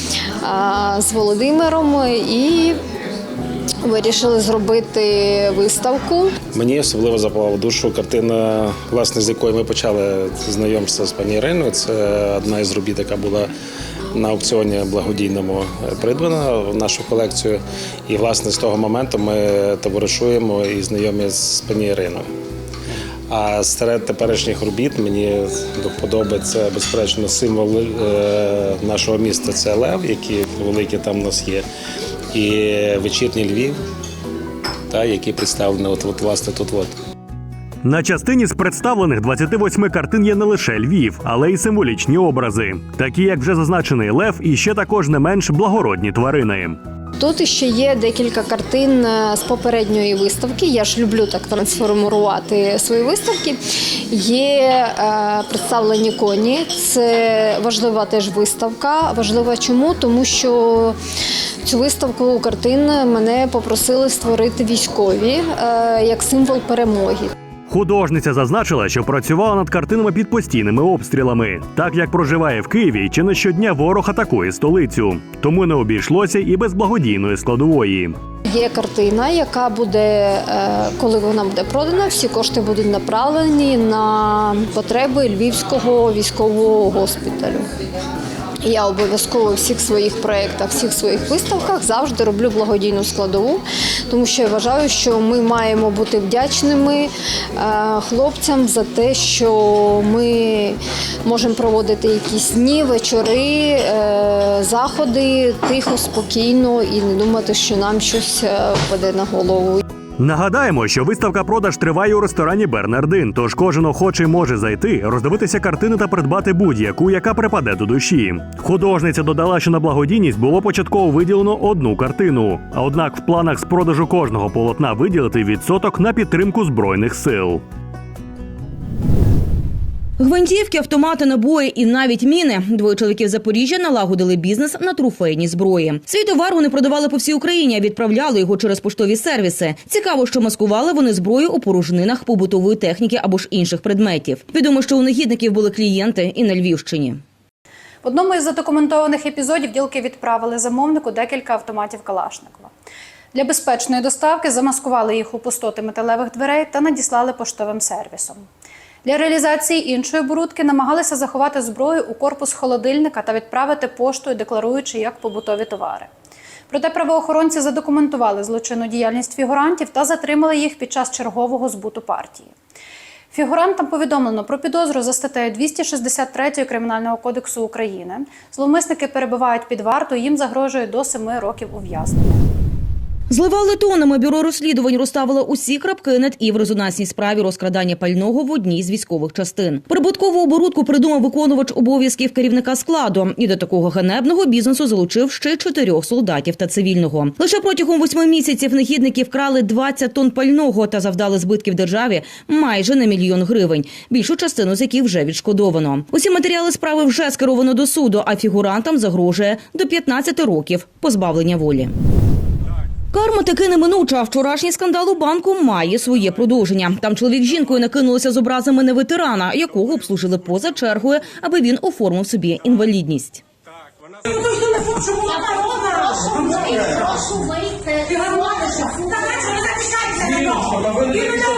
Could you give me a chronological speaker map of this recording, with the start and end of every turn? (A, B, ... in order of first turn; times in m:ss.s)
0:00.4-0:02.8 A
0:03.8-0:06.3 A
0:06.5-0:13.5 B
0:14.1-0:22.2 B
0:23.3-0:31.6 B
0:32.3-0:33.8 B
0:34.9-0:36.9 B
0:37.8-0:46.8 C
0:47.2-0:53.6 A
0:54.1-1:00.9 A
1:01.6-1:07.3 A
1:07.7-1:18.2 C
1:18.5-1:27.6 A
1:28.6-1:49.8 A
1:50.2-2:07.6 C
2:10.2-2:27.2 D
2:28.0-2:32.7 E
2:33.3-2:38.4 E
2:39.0-2:46.1 E
2:46.7-2:52.5 E
2:53.3-3:02.4 E
3:03.3-3:31.9 D
3:33.1-3:43.4 D